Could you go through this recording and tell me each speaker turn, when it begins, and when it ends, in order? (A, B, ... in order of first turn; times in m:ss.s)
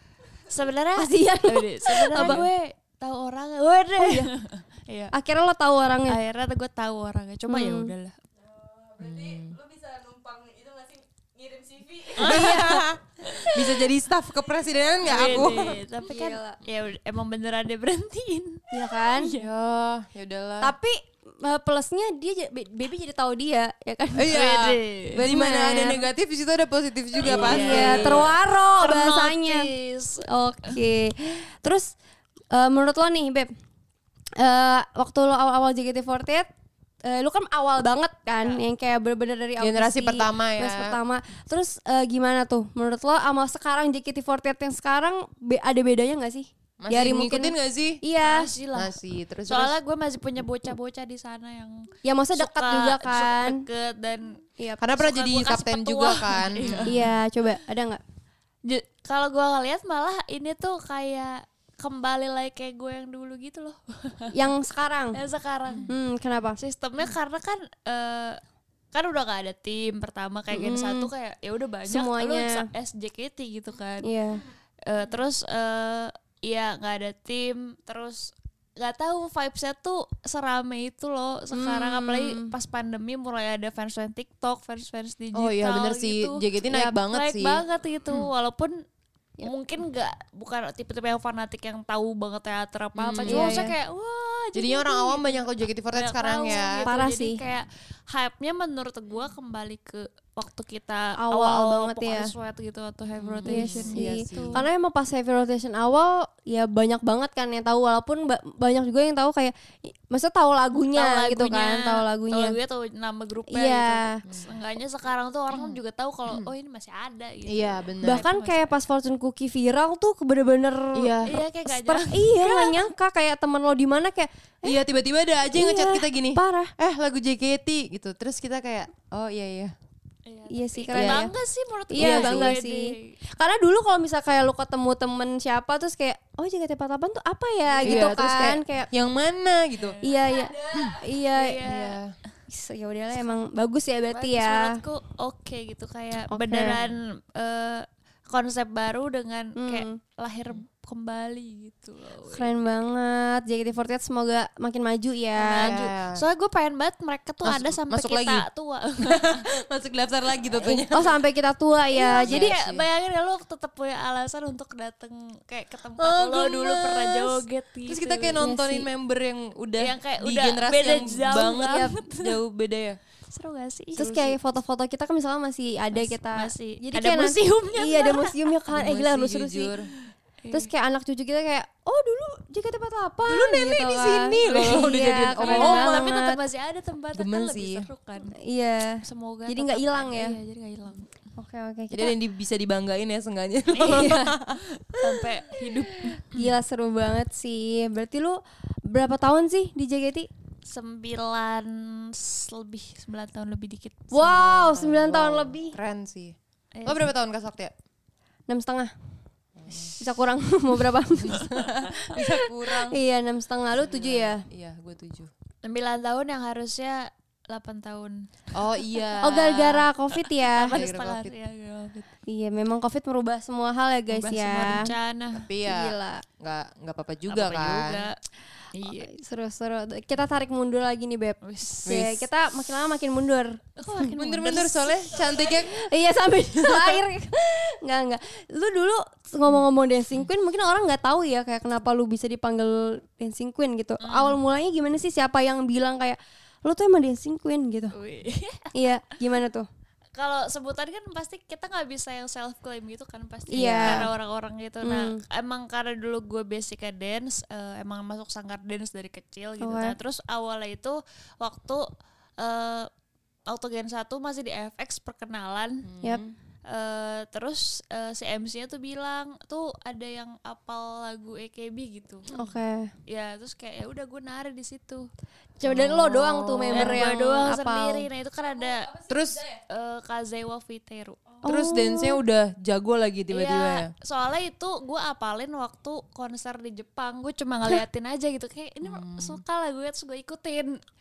0:00.5-0:05.1 A
0:01.0-0:02.4 B
0:02.2-0:02.5 C
0:04.0-0:04.3 B
0:05.1-0:06.2 B
0:06.1-0:08.2 A
0:07.5-0:07.9 B
0:08.4-0:12.6 D
0:09.0-0:09.6 C
0:12.2-0:13.8 A
0:12.2-0:15.8 C
0:15.0-0:19.5 A
0:16.0-0:16.6 B
0:18.7-0:19.3 B
0:19.3-0:20.7 C
0:20.6-0:24.4 B
0:24.2-0:28.3 C
0:24.3-0:25.2 A
0:25.1-0:26.1 B
0:27.2-0:30.8 A
0:27.2-0:29.7 B
0:30.2-0:31.9 B
0:32.5-0:33.5 B
0:34.4-0:36.5 B
0:37.0-0:48.5 B
0:39.6-0:41.0 C
0:46.8-0:48.0 C
0:48.2-0:48.9 A
0:48.7-0:49.8 C
0:49.5-0:54.4 A
0:52.0-0:53.6 B
0:54.6-0:54.8 B
0:54.8-0:57.1 C
0:54.9-0:57.1 A
0:56.9-0:58.0 B
0:58.6-1:04.4 A
1:04.3-1:05.2 B
1:05.1-1:05.9 A
1:05.7-1:05.9 C
1:05.9-1:06.6 B
1:06.6-1:08.4 A
1:08.9-1:14.1 A
1:10.5-1:11.1 B
1:11.9-1:12.7 B
1:14.0-1:14.4 B
1:14.9-1:26.4 A
1:21.5-1:22.5 B
1:25.3-1:28.3 C
1:26.7-1:27.0 B
1:27.1-1:28.8 A
1:29.4-1:44.6 A
1:33.0-1:33.6 C
1:33.3-1:33.7 B
1:34.6-1:36.9 C
1:36.9-1:37.4 B
1:41.2-1:42.3 B
1:43.2-1:44.6 C
1:43.5-1:52.6 B
1:50.9-1:58.7 A
1:53.5-1:54.2 B
1:55.5-1:56.5 C
1:57.5-1:58.2 C
1:58.0-2:04.8 B
2:01.0-2:01.4 C
2:01.2-2:02.9 A
2:04.6-2:09.7 C
2:05.5-2:06.7 B
2:10.3-2:13.2 A
2:10.5-2:11.3 B
2:10.9-2:11.3 C
2:11.9-2:18.9 B
2:12.0-2:12.6 C
2:17.7-2:18.0 A
2:17.8-2:20.0 C
2:19.8-2:20.1 A
2:20.0-2:21.6 B
2:20.2-2:21.0 D
2:21.3-2:22.0 A
2:21.6-2:22.2 C
2:22.5-2:24.8 B
2:24.1-2:32.5 A
2:26.3-2:26.8 B
2:29.6-2:30.0 B
2:32.3-2:35.8 B
2:35.4-2:39.5 A
2:35.6-2:36.2 C
2:37.4-2:38.4 C
2:39.0-2:41.1 C
2:40.6-2:42.5 B
2:41.9-2:48.4 A
2:42.2-2:42.8 C
2:46.0-2:53.0 C
2:48.4-2:48.9 B
2:49.8-2:52.4 A
2:51.3-2:52.0 B
2:53.3-2:54.2 A
2:54.0-2:59.7 B
2:54.0-2:54.4 C
2:55.9-2:58.4 A
2:58.7-2:59.9 C
3:00.4-3:00.7 A
3:00.5-3:06.4 B
3:03.3-3:06.2 C
3:05.3-3:08.4 A
3:07.1-3:07.9 C
3:08.4-3:10.4 B
3:09.0-3:11.1 A
3:11.4-3:12.2 B
3:11.9-3:15.0 C
3:13.8-3:14.3 A
3:13.9-3:14.3 B
3:14.9-3:16.5 A
3:16.0-3:20.3 B
3:20.7-3:24.4 A
3:24.1-3:25.8 B
3:24.3-3:27.7 C
3:26.8-3:27.1 A
3:28.5-3:28.9 B
3:29.6-3:29.9 C
3:30.0-3:31.5 B
3:31.2-3:33.0 C
3:32.9-3:34.4 B
3:33.8-3:35.3 C
3:35.6-3:38.3 A
3:38.5-3:39.9 C
3:39.2-3:40.8 B
3:40.3-3:42.1 A
3:40.7-3:41.3 C
3:42.3-3:44.9 B
3:44.1-3:45.5 A
3:45.3-3:48.1 C
3:45.6-3:46.2 B
3:47.3-3:48.2 A
3:48.7-3:49.1 A
3:49.0-3:54.6 B
3:51.4-3:52.1 A
3:51.9-3:52.2 C
3:53.8-3:55.3 A
3:54.1-3:55.8 C
3:55.6-4:08.0 B
3:56.5-3:57.0 C
4:04.0-4:04.4 A
4:07.9-4:08.7 A
4:08.7-4:09.7 B
4:10.2-4:21.9 A
4:13.5-4:14.1 B
4:13.5-4:14.1 C
4:14.8-4:15.2 B
4:19.6-4:20.0 B
4:22.4-4:22.9 A
4:23.5-4:25.9 A
4:25.8-4:26.4 C
4:26.7-4:32.3 A
4:32.3-4:32.9 B
4:33.1-4:35.1 A
4:35.6-4:38.1 B
4:35.6-4:37.1 C
4:36.7-4:38.9 A
4:38.4-4:39.6 D
4:39.1-4:39.4 C
4:39.7-4:41.2 A
4:41.4-4:42.2 B
4:41.4-4:43.9 C
4:43.3-4:50.8 A
4:48.8-4:49.4 C